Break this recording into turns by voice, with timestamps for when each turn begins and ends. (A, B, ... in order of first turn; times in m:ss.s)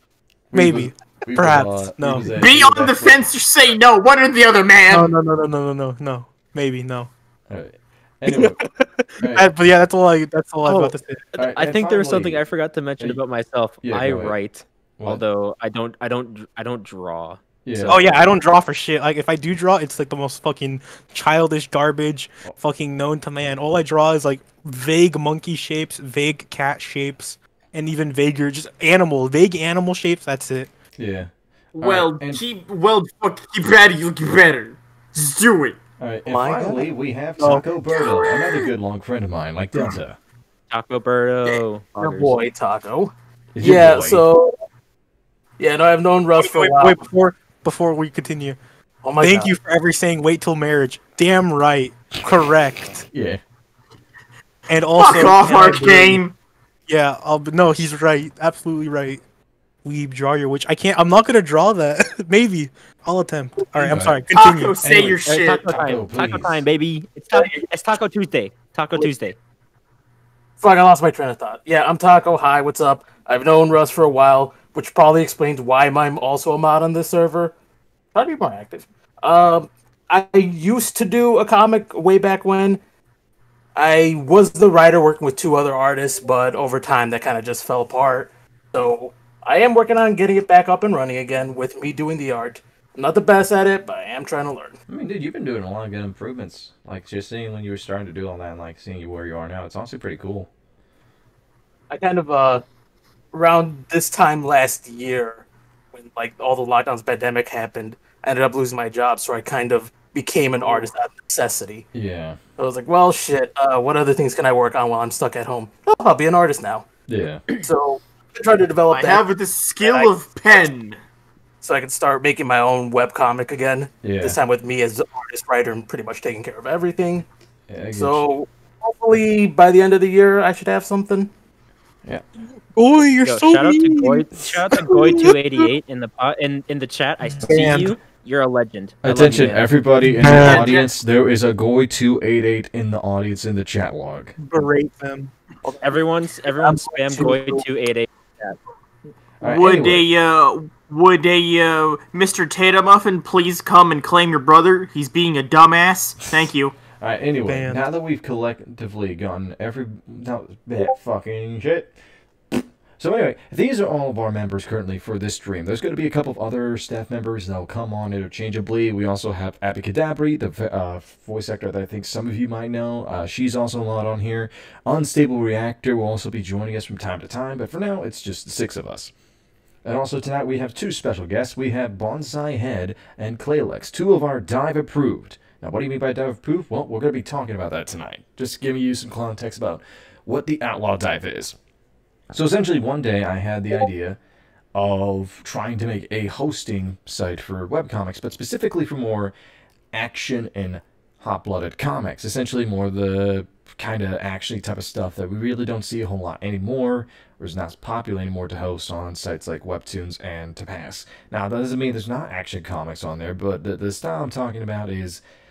0:00.5-0:03.2 A
0:00.5-0:02.3 B
0:02.4-0:05.1 C
0:04.9-0:07.1 B
0:07.5-0:08.6 A
0:08.3-0:11.2 B
0:09.2-0:09.5 A
0:10.6-0:18.3 D
0:11.4-0:12.4 A
0:13.8-0:14.4 A
0:17.6-0:18.0 A
0:17.9-0:30.7 B
0:31.0-0:32.4 A
0:31.8-0:35.8 C
0:36.0-0:40.2 A
0:36.3-0:36.9 E
0:37.4-0:37.6 B
0:37.9-0:38.7 C
0:40.7-0:42.4 D
0:41.5-0:44.6 E
0:43.6-0:44.2 A
0:45.6-0:47.0 E
0:46.4-0:48.6 B
0:49.0-0:49.5 E
0:49.2-0:53.1 B
0:53.1-0:53.4 A
0:54.7-0:55.9 B
0:55.0-0:56.4 C
0:55.4-0:56.2 A
0:56.9-0:59.2 B
0:59.8-1:04.8 B
1:03.8-1:05.7 C
1:03.9-1:04.2 A
1:04.8-1:06.6 A
1:05.2-1:09.4 D
1:10.6-1:17.5 E
1:18.1-1:22.8 E
1:23.8-1:34.8 E
1:34.9-1:40.5 A
1:41.9-1:42.6 E
1:43.3-1:51.9 E
1:51.9-1:52.4 A
1:52.6-1:56.9 E
1:57.1-1:57.4 A
1:57.6-1:59.3 E
1:58.9-2:01.0 C
1:59.8-2:00.1 E
2:01.6-2:07.3 E
2:04.0-2:04.4 A
2:07.7-2:08.3 A
2:07.9-2:11.3 E
2:12.8-2:15.3 B
2:13.2-2:19.7 D
2:17.5-2:17.8 E
2:19.0-2:24.3 A
2:20.2-2:20.7 E
2:20.2-2:20.9 C
2:24.4-2:25.3 B
2:25.7-2:26.0 E
2:25.8-2:28.6 D
2:26.6-2:27.6 E
2:29.4-2:30.1 A
2:29.4-2:36.8 C
2:37.0-2:42.0 A
2:37.5-2:37.8 B
2:42.5-2:59.1 A
2:59.8-3:11.6 A
3:12.3-3:14.2 A
3:14.7-3:19.3 A
3:19.9-3:35.2 A